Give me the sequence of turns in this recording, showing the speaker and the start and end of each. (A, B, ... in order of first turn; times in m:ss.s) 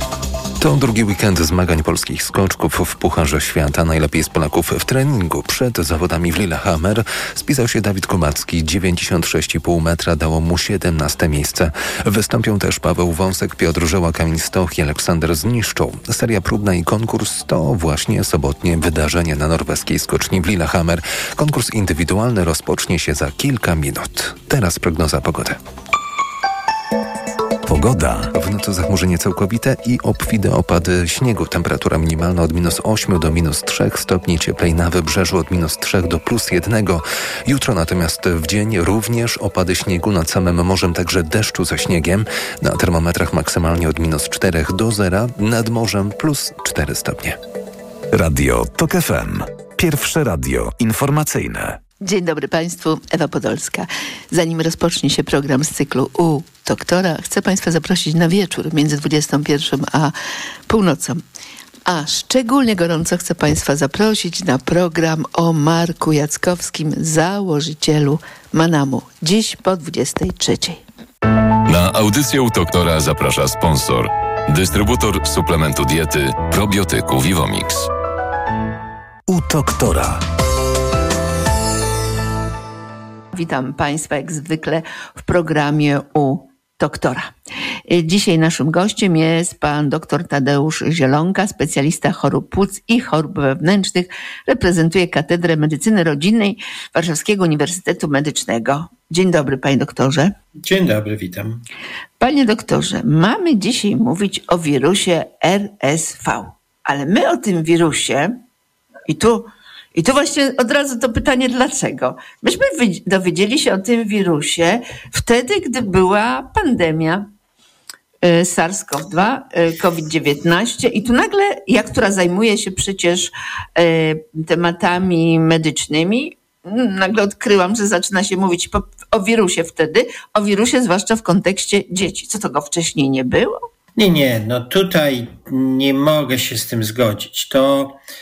0:00.6-0:25.6 A
0:27.7-0:28.3 B
0:28.3-0:47.4 A
0:48.1-0:51.8 B
0:52.0-1:00.1 C
1:00.7-1:01.2 C
1:01.8-1:10.8 C
1:11.7-1:17.9 D
1:19.3-1:20.2 B
1:23.3-1:27.3 C
1:27.9-1:40.3 C
1:40.6-1:41.6 E
1:42.2-1:48.3 C
1:49.1-1:57.3 C
1:58.2-2:13.6 C
2:14.0-2:18.0 E